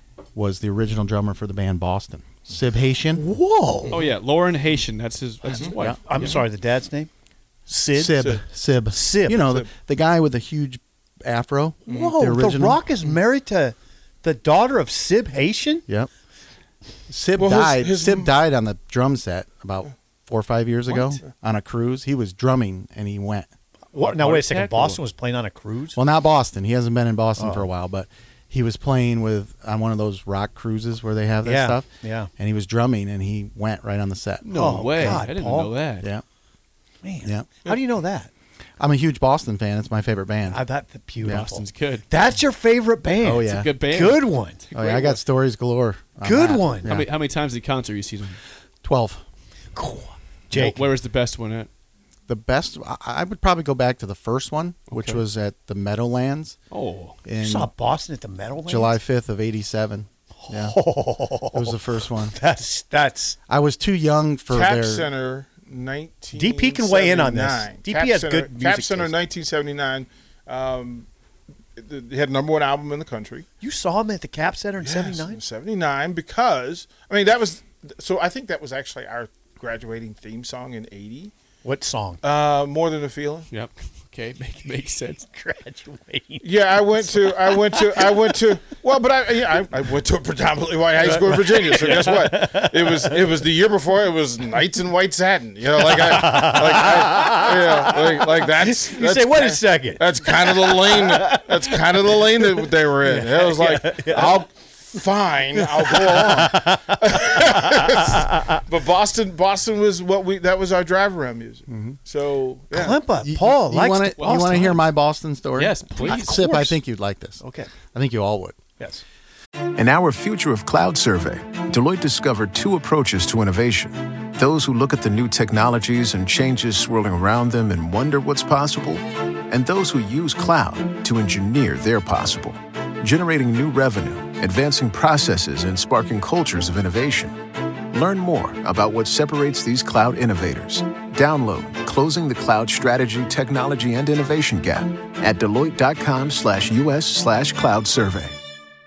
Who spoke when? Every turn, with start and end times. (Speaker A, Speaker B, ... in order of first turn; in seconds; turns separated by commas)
Speaker A: 0.3-3.2, Speaker B: 3.1-4.0, Speaker C: 3.9-6.4, Speaker B: 6.0-7.1, Speaker B: 7.7-8.3, Speaker A: 7.9-12.8, Speaker D: 8.2-8.4, Speaker B: 8.9-9.4, Speaker B: 11.9-15.8, Speaker A: 17.1-23.5, Speaker D: 17.4-18.3, Speaker D: 20.9-21.2, Speaker B: 23.9-26.0, Speaker C: 24.0-25.0, Speaker A: 25.9-35.2, Speaker B: 27.4-27.7, Speaker B: 31.4-32.3, Speaker C: 34.4-36.1, Speaker B: 34.5-35.7, Speaker B: 37.0-38.3, Speaker A: 37.2-37.5, Speaker A: 38.8-40.6, Speaker B: 40.5-44.6, Speaker A: 41.2-41.5, Speaker C: 41.3-42.1, Speaker A: 43.2-43.7, Speaker C: 43.4-45.2, Speaker A: 44.7-47.1, Speaker B: 46.2-46.9, Speaker C: 46.8-48.4, Speaker A: 48.8-49.2, Speaker B: 49.7-50.8, Speaker C: 50.5-51.7, Speaker A: 52.3-56.6, Speaker C: 54.9-55.2, Speaker C: 56.7-57.2, Speaker A: 57.2-57.7, Speaker B: 57.4-58.9, Speaker A: 58.6-60.8, Speaker B: 60.4-63.4, Speaker A: 61.5-62.4, Speaker A: 63.5-65.1, Speaker D: 64.5-71.1, Speaker B: 66.3-69.1, Speaker D: 71.8-73.5, Speaker B: 73.6-75.4, Speaker D: 74.8-81.3, Speaker B: 81.6-82.2, Speaker D: 82.2-83.5, Speaker C: 83.5-85.2, Speaker B: 85.3-88.3, Speaker D: 86.4-113.0, Speaker B: 91.0-93.2, Speaker B: 95.8-104.4, Speaker B: 105.6-108.6, Speaker A: 111.7-112.0, Speaker B: 112.7-114.8, Speaker A: 113.2-117.4, Speaker C: 114.2-114.6, Speaker C: 115.6-116.4, Speaker B: 115.9-116.8, Speaker B: 117.4-117.7, Speaker A: 117.9-118.6, Speaker E: 119.8-137.4, Speaker E: 137.9-148.3